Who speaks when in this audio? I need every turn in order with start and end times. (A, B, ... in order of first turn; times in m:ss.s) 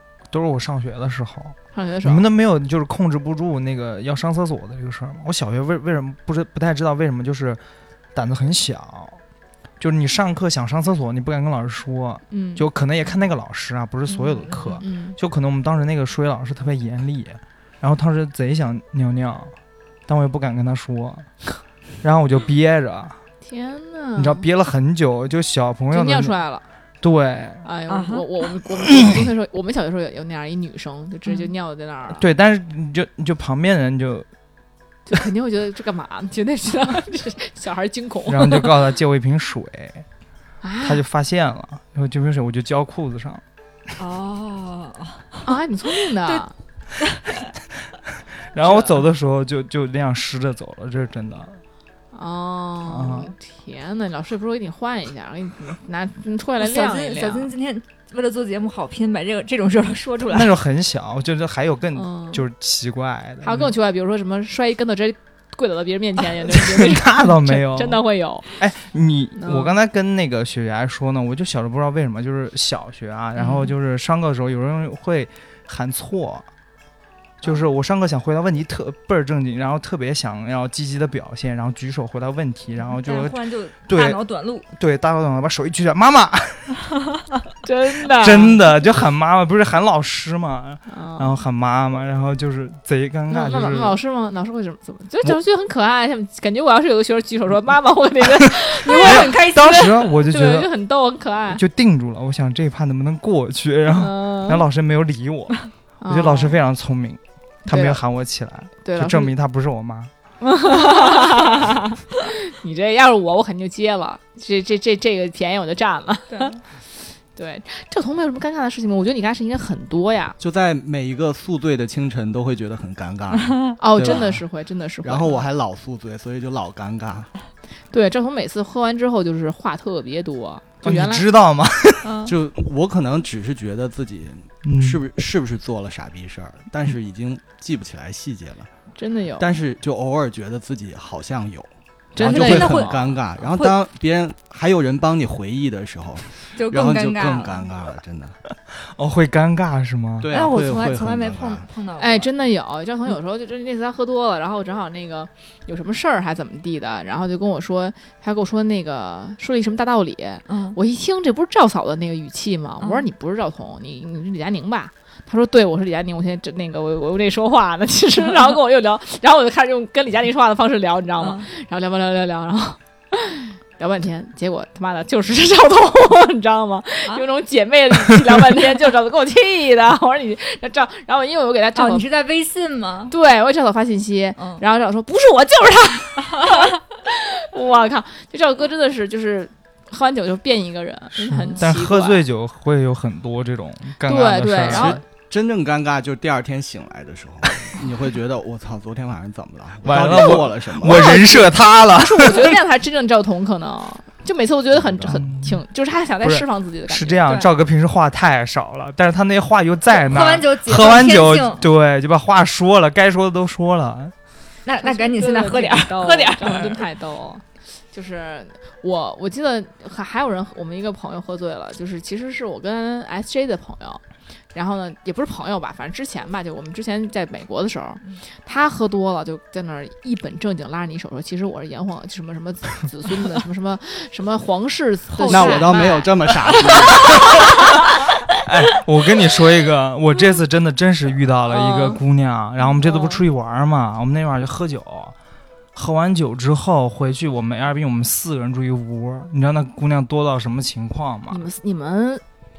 0:00.3-0:07.6 A
0:01.7-0:02.2 B
0:08.1-0:09.2 A
0:09.8-0:19.5 A
0:12.3-0:12.6 B
0:14.1-0:14.8 C
0:14.8-0:15.2 B
0:20.1-0:21.3 A
0:22.0-0:23.2 A
0:23.4-0:24.4 B
0:24.2-0:26.3 A
0:25.9-0:26.6 B
0:27.0-0:27.6 A
0:27.6-0:32.2 B
0:27.9-0:28.2 C
0:28.8-0:29.3 A
0:32.1-0:34.3 A
0:35.1-0:38.7 B
0:38.2-0:40.0 A
0:40.6-0:41.0 B
0:40.8-0:43.4 A
0:44.0-0:45.5 C
0:45.4-0:46.5 B
0:47.0-0:47.3 C
0:48.5-0:51.6 A
0:48.6-0:49.0 B
0:52.1-0:57.5 B
0:52.8-0:53.3 A
0:56.6-1:00.5 C
1:00.2-1:03.7 A
1:01.9-1:02.4 B
1:03.4-1:08.5 B
1:06.5-1:08.0 A
1:08.6-1:16.4 A
1:09.4-1:09.7 B
1:13.4-1:13.7 B
1:17.4-1:26.8 A
1:23.0-1:24.7 C
1:27.6-1:28.6 B
1:28.0-1:34.0 A
1:30.9-1:31.3 B
1:33.3-1:41.6 B
1:38.3-1:40.7 A
1:38.8-1:39.9 C
1:41.5-1:50.1 A
1:43.9-1:44.6 B
1:46.0-1:46.6 B
1:47.7-1:48.0 B
1:48.8-1:49.3 B
1:50.4-1:56.6 B
1:56.3-1:56.6 C
1:57.3-2:00.4 B
2:00.4-2:04.4 D
2:03.4-2:03.8 C
2:03.8-2:05.4 B
2:05.0-2:07.3 D
2:07.9-2:11.3 B
2:10.8-2:12.2 A
2:12.0-2:12.3 C
2:12.2-2:18.7 D
2:14.6-2:15.0 A
2:19.0-2:19.5 B
2:19.4-2:28.4 D
2:22.2-2:23.2 B
2:22.2-2:22.7 A
2:22.2-2:23.8 C
2:26.5-2:27.7 C
2:28.8-2:30.3 A
2:30.2-2:31.7 D
2:30.3-2:32.3 C
2:32.0-3:02.0 B
2:40.5-2:40.8 C
2:51.2-2:51.5 C
3:01.7-3:03.1 C
3:03.1-3:12.2 B
3:04.4-3:04.6 C
3:11.1-3:15.0 A
3:14.0-3:15.0 B
3:14.7-3:21.2 D
3:19.8-3:22.6 A
3:20.9-3:27.4 B
3:24.7-3:25.1 D
3:25.0-3:25.6 A
3:26.2-3:34.1 A
3:29.9-3:31.6 C
3:34.6-3:36.8 C
3:34.8-3:44.0 B
3:44.5-3:57.2 B
3:55.1-3:56.0 C
3:55.3-3:57.2 D
3:58.4-4:05.1 A
4:01.5-4:02.0 B
4:02.8-4:03.2 B
4:05.7-4:11.4 A
4:11.3-4:12.2 B